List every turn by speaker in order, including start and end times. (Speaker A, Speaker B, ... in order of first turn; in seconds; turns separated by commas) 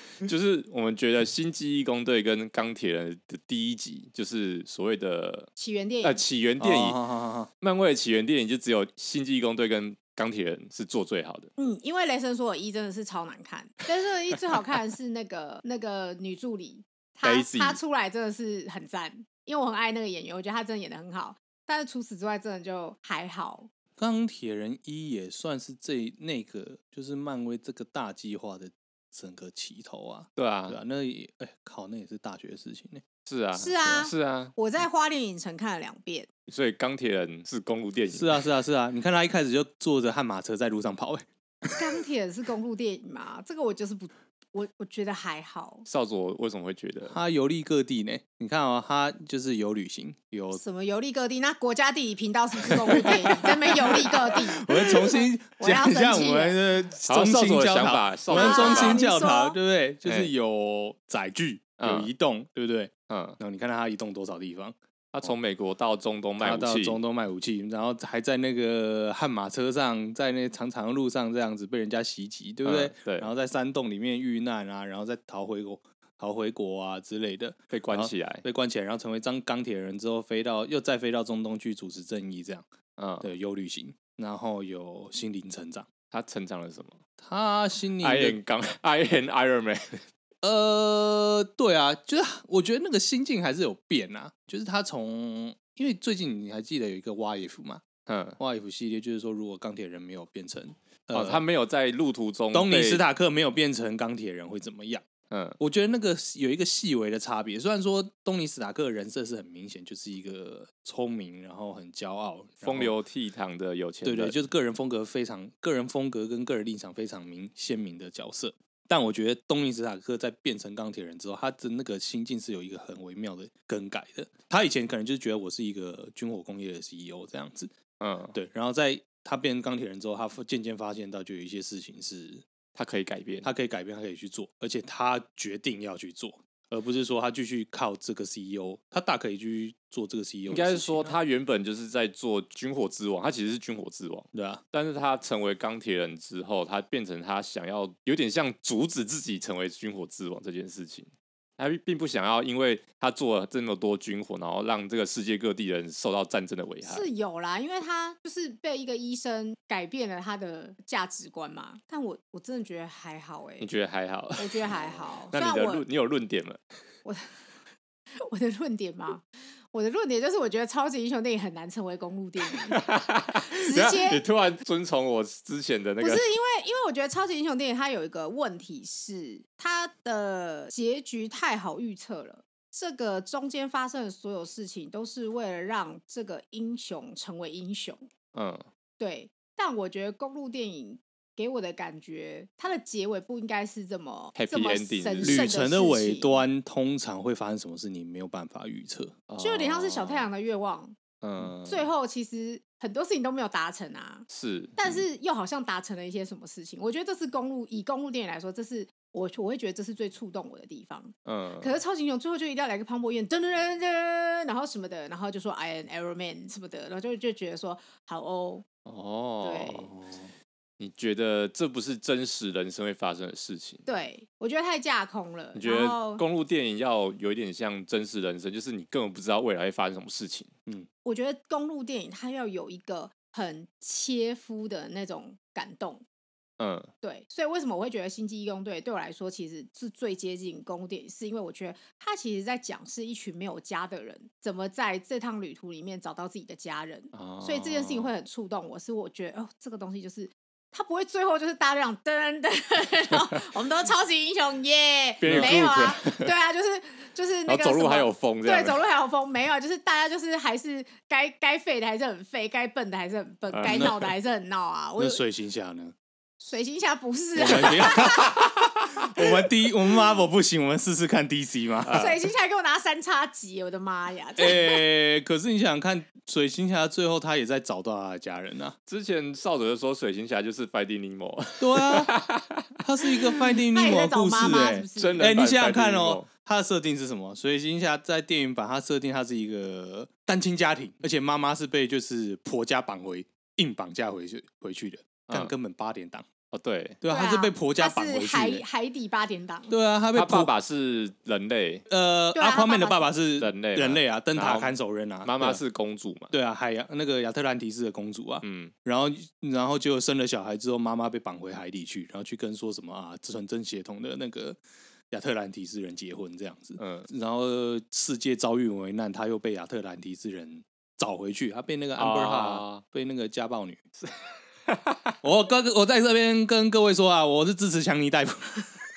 Speaker A: 0.2-5.5, Speaker B: 5.5-6.2, Speaker A: 6.0-7.0, Speaker C: 6.6-7.5, Speaker A: 7.6-11.5, Speaker B: 11.6-23.7, Speaker A: 17.2-17.8, Speaker C: 24.0-33.0, Speaker A: 30.4-30.8, Speaker A: 33.2-34.5, Speaker B: 33.5-36.3, Speaker A: 36.5-38.4, Speaker C: 38.1-41.9, Speaker B: 41.7-45.9, Speaker A: 45.9-47.2, Speaker C: 47.1-50.6, Speaker B: 50.5-56.6, Speaker C: 53.7-65.3, Speaker A: 57.1-59.0, Speaker B: 58.3-59.6, Speaker A: 60.0-60.3, Speaker A: 61.8-62.1, Speaker A: 63.1-63.4, Speaker A: 65.1-67.0, Speaker C: 66.4-82.7, Speaker A: 72.6-73.3, Speaker A: 77.7-78.4, Speaker A: 83.0-83.3, Speaker C: 83.2-85.9, Speaker A: 86.1-87.0, Speaker C: 87.2-88.4, Speaker A: 88.0-90.0, Speaker C: 90.4-97.8, Speaker A: 98.0-98.4, Speaker C: 98.4-101.4, Speaker A: 101.1-103.0, Speaker C: 102.5-105.0, Speaker A: 105.3-105.6, Speaker C: 105.6-112.9, Speaker A: 112.6-114.3, Speaker C: 114.0-127.7, Speaker A: 128.0-128.3, Speaker C: 128.3-132.4, Speaker A: 132.7-133.5, Speaker C: 133.4-141.1, Speaker A: 140.5-157.1, Speaker C: 144.3-144.6, Speaker B: 156.8-163.7, Speaker A: 163.6-166.6, Speaker B: 164.4-165.8, Speaker B: 167.0-167.4, Speaker B: 168.2-174.2, Speaker A: 172.5-176.2, Speaker B: 176.0-188.1, Speaker A: 188.3-188.7, Speaker B: 189.0-196.4, Speaker A: 194.3-195.5, Speaker C: 195.2-199.2, Speaker A: 199.3-200.3, Speaker B: 199.4-200.9, Speaker A: 201.2-201.9, Speaker B: 201.7-218.6, Speaker A: 204.3-205.0, Speaker A: 211.2-211.7, Speaker A: 218.8-219.9, Speaker B: 219.4-219.9, Speaker C: 219.9-220.3, Speaker A: 220.8-223.9, Speaker B: 223.9-226.2, Speaker A: 225.5-230.5, Speaker B: 231.0-236.0, Speaker A: 236.6-236.9, Speaker B: 237.0-265.2, Speaker A: 247.1-248.1, Speaker A: 255.2-256.3, Speaker C: 255.2-255.6, Speaker A: 257.5-258.8, Speaker A: 263.5-264.1, Speaker C: 263.6-263.9, Speaker C: 265.0-265.9, Speaker B: 266.4-268.4, Speaker C: 267.4-271.9, Speaker A: 268.4-268.9, Speaker A: 271.8-272.2, Speaker B: 271.9-274.8, Speaker C: 274.4-278.8, Speaker A: 278.9-282.7, Speaker C: 281.6-282.2, Speaker C: 282.8-296.3, Speaker B: 283.7-285.3, Speaker A: 284.9-286.3, Speaker A: 295.3-295.5, Speaker A: 296.5-297.0, Speaker C: 297.0-298.6, Speaker B: 297.0-299.7, Speaker C: 299.7-300.5, Speaker A: 300.1-301.9, Speaker C: 301.9-305.6, Speaker B: 302.3-303.1, Speaker A: 303.4-306.3, Speaker C: 306.3-314.6, Speaker A: 308.4-308.7, Speaker C: 315.1-323.8, Speaker A: 316.8-317.1, Speaker A: 322.0-322.8, Speaker A: 324.6-325.1, Speaker C: 325.2-328.7